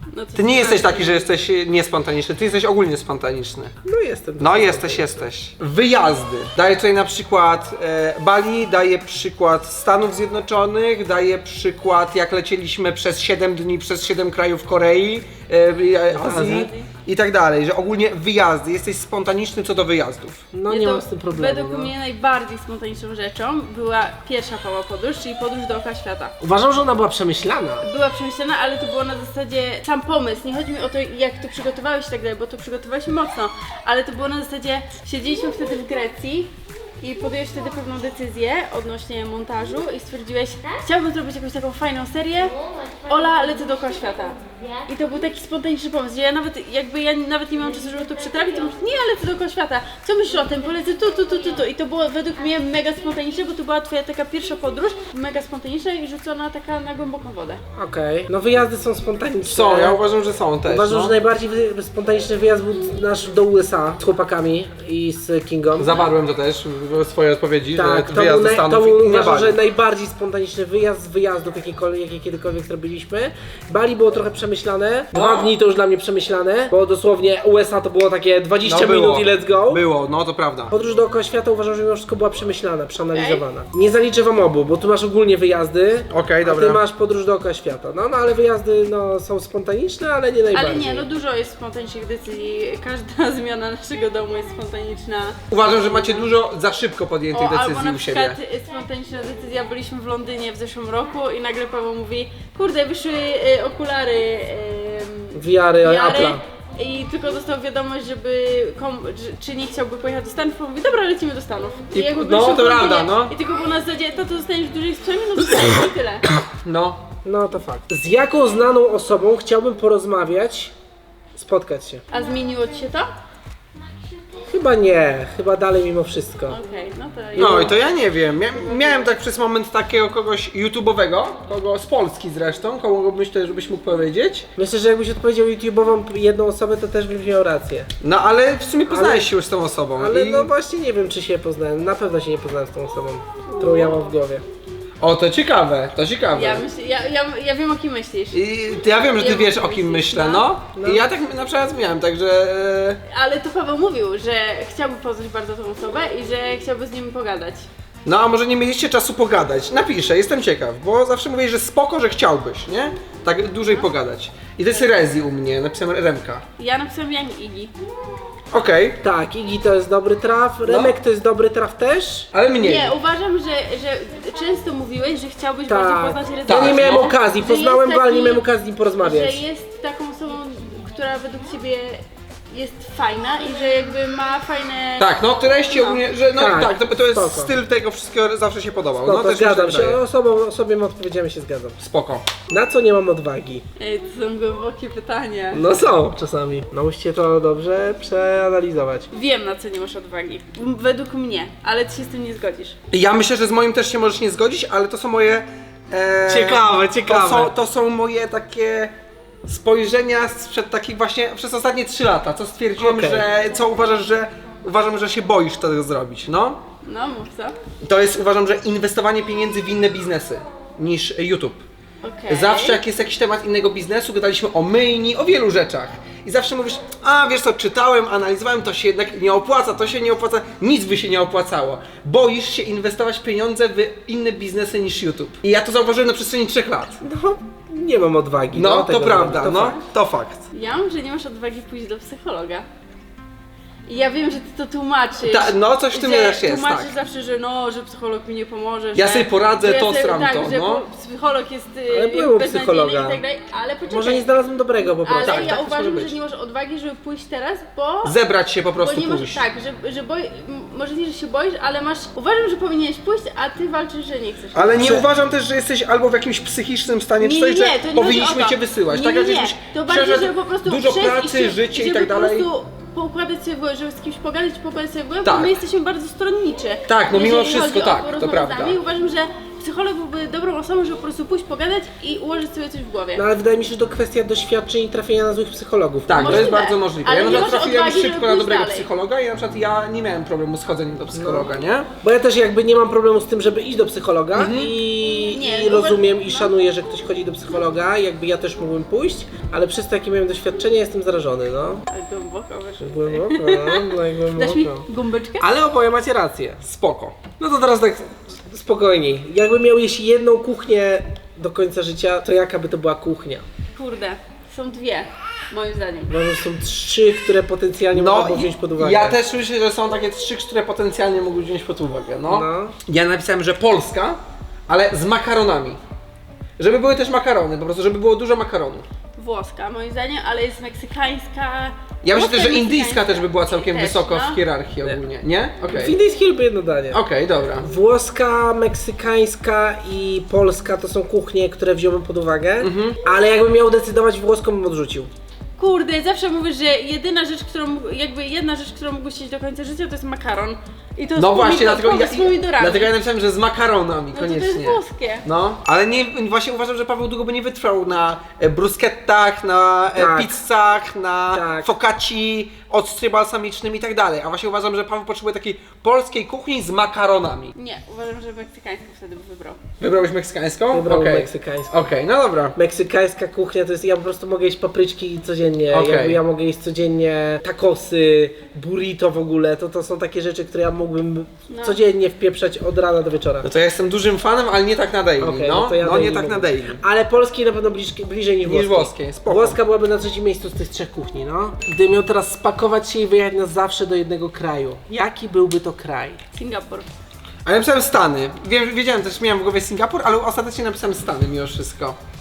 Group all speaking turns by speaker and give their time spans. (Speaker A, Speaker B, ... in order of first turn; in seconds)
Speaker A: 0.1-1.3, 16.3-16.9, 20.7-26.3, 27.8-57.6, 83.1-83.4, 90.5-96.2, 97.3-116.3, 122.1-123.1, 126.5-127.8, 146.3-148.4, 149.2-150.5, 153.1-157.7, 166.6-167.7, 172.6-178.4, 179.0-185.1, 185.7-186.0, 193.8-195.6, 199.1-202.8, 216.8-217.6, 222.0-222.8, 240.5-242.7, 243.9-254.3, 254.9-258.2, 258.8-265.0, 267.2-283.2, 286.2-288.9, 295.1-296.5, 301.9-305.5, 313.8-316.1, 329.2-334.4, 345.6-352.9, 354.1-355.2, 367.6-369.6, 381.5-381.8, 396.3-396.9
Speaker B: 0.4-3.7, 4.4-20.4, 59.4-61.2, 65.8-69.6, 75.1-75.5, 78.6-80.7, 86.1-86.8, 95.5-98.4, 111.9-113.3, 116.4-117.0, 127.4-134.5, 138.0-140.5, 145.0-146.6, 148.3-153.0, 158.1-166.4, 168.5-169.0, 170.7-170.9, 172.3-173.0, 176.5-177.2, 185.0-190.0, 191.8-192.3, 202.9-208.9, 209.5-216.6, 217.8-221.6, 222.3-237.0, 238.5-240.4, 245.2-246.9, 249.0-250.8, 255.2-256.2, 258.0-259.4, 264.5-272.5, 275.2-275.6, 276.9-278.8, 286.1-291.9, 294.3-294.7, 306.6-307.2, 317.9-325.8, 326.6-328.9, 332.0-336.0, 336.9-337.7, 342.6-343.0, 351.2-367.6, 369.8-372.6, 375.7-376.2, 383.4-386.8, 388.5-389.6, 397.4-402.0
Speaker C: 3.8-5.2, 16.1-16.7, 20.5-21.9, 26.4-27.9, 57.8-60.0, 60.7-66.1, 67.8-79.8, 80.7-91.1, 105.3-106.4, 117.2-120.7, 121.3-122.0, 124.5-126.6, 127.4-127.7, 134.6-137.9, 138.9-139.3, 140.0-144.4, 150.8-151.0, 169.0-172.3, 175.7-179.4, 186.4-187.5, 189.0-191.8, 192.5-193.7, 195.5-199.1, 206.3-207.5, 212.8-213.3, 237.0-239.8, 251.9-253.2, 253.9-255.6, 264.8-265.1, 283.2-286.6, 291.1-301.9, 302.8-304.9, 305.4-306.6, 307.4-313.4, 316.1-319.2, 322.3-322.7, 335.7-337.0, 337.6-345.1, 359.9-360.4, 361.3-361.7, 370.7-371.8, 372.6-383.5, 385.2-396.2